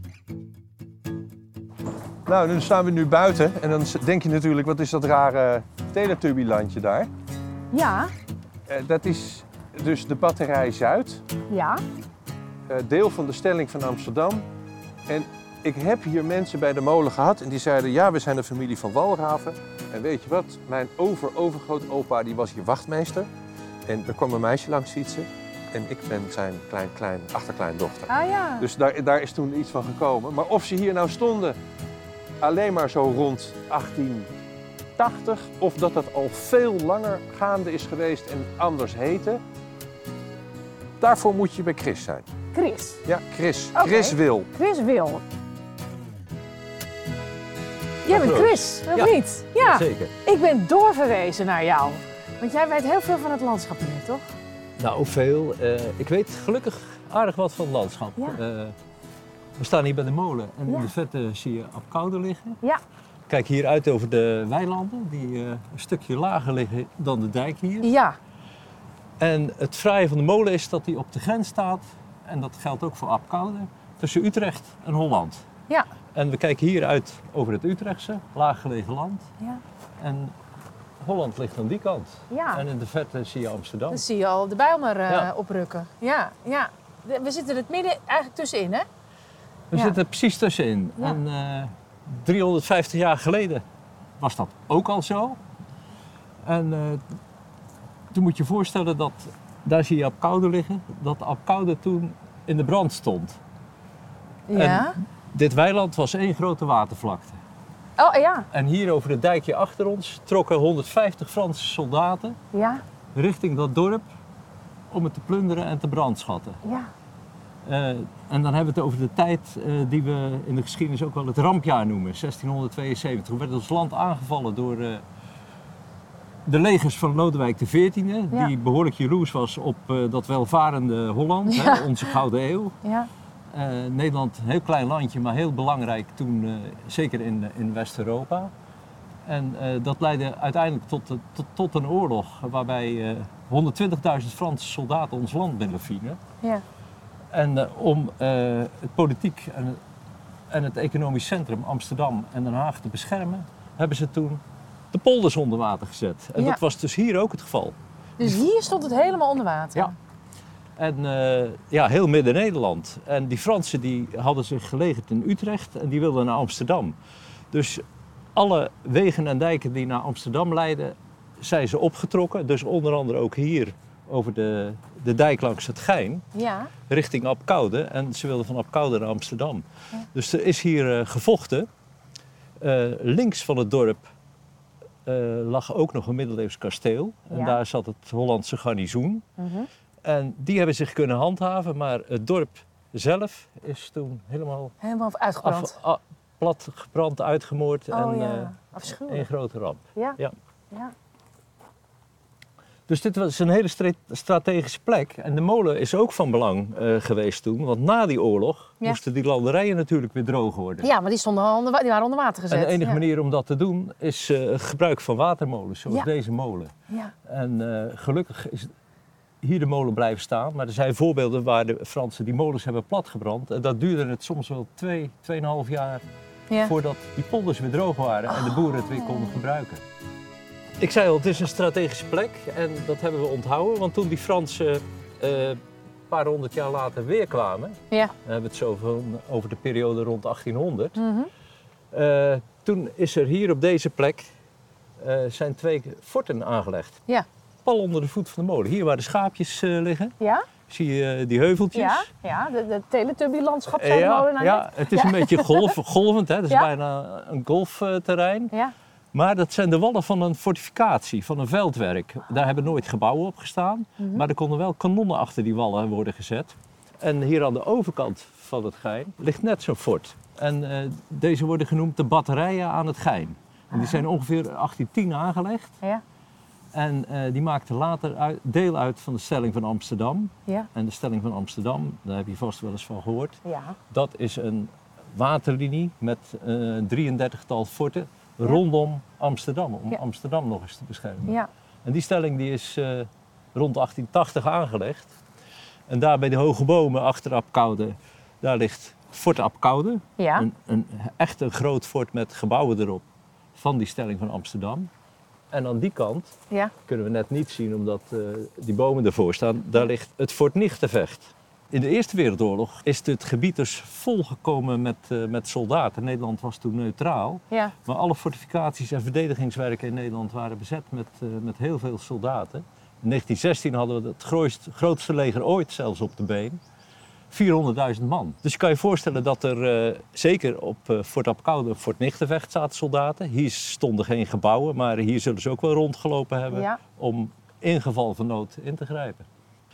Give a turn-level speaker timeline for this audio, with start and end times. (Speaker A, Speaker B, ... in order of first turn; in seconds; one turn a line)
Speaker A: 2.2-7.1
Speaker B: 7.7-8.1
Speaker A: 8.7-11.2
Speaker B: 11.5-11.8
Speaker A: 12.7-14.4
Speaker A: 15.1-23.3
Speaker A: 23.9-31.6
Speaker B: 28.1-28.7
Speaker A: 32.4-34.3
Speaker A: 35.0-39.4
Speaker A: 41.0-42.3
Speaker B: 42.5-43.0
Speaker A: 43.0-44.5
Speaker B: 43.7-45.2
Speaker B: 48.0-54.2
Speaker C: 48.1-50.1
Speaker C: 54.8-58.7
Speaker C: 59.6-62.6
Speaker B: 60.6-60.9
Speaker C: 63.3-67.9
Speaker B: 67.8-68.2
Speaker C: 69.2-75.4
Speaker C: 76.1-79.2
Speaker C: 80.0-80.3
Speaker C: 81.0-84.0
Speaker B: 82.3-82.6
Speaker B: 83.9-88.8
Speaker C: 89.7-93.6
Speaker C: 94.2-95.4
Speaker C: 96.4-97.0
Speaker C: 98.1-103.4
Speaker B: 104.5-105.0
Speaker C: 104.5-107.4
Speaker B: 108.0-108.5
Speaker C: 108.5-112.4
Speaker B: 112.5-112.8
Speaker C: 113.1-114.1
Speaker C: 114.9-116.6
Speaker B: 116.6-116.9
Speaker C: 117.6-125.0
Speaker C: 126.5-132.7
Speaker B: 131.5-131.8
Speaker B: 132.8-133.1
Speaker C: 133.5-138.5
Speaker C: 139.2-146.2
Speaker C: 147.3-149.8
Speaker C: 150.5-158.3
Speaker B: 158.2-159.9
Speaker C: 160.8-166.9
Speaker C: 167.5-167.8
Speaker C: 168.3-176.2
Speaker B: 176.3-176.7
Speaker C: 176.9-181.7
Speaker C: 182.6-184.1
Speaker C: 185.1-189.2
Speaker B: 187.3-187.6
Speaker B: 189.4-189.7
Speaker C: 190.0-194.7
Speaker B: 194.8-195.7
Speaker C: 195.4-200.3
Speaker B: 197.9-199.3
Speaker C: 202.9-210.9
Speaker B: 210.8-213.0
Speaker C: 212.5-216.7
Speaker C: 217.3-218.7
Speaker C: 219.4-226.0
Speaker C: 226.6-229.8
Speaker C: 230.8-241.0
Speaker B: 240.9-241.3
Speaker C: 241.9-244.3
Speaker C: 245.0-247.0
Speaker C: 247.6-250.1
Speaker B: 250.2-250.5
Speaker C: 250.7-252.1
Speaker B: 251.7-255.8
Speaker C: 253.7-258.5
Speaker C: 259.1-275.7
Speaker B: 264.0-264.2
Speaker B: 273.7-274.0
Speaker C: 276.7-283.4
Speaker B: 283.4-283.8
Speaker C: 283.9-295.1
Speaker C: 295.9-303.0
Speaker B: 300.2-300.5
Speaker C: 303.5-304.9
Speaker C: 305.5-306.3
Speaker C: 306.9-326.6
Speaker C: 327.3-339.2
Speaker B: 336.5-336.8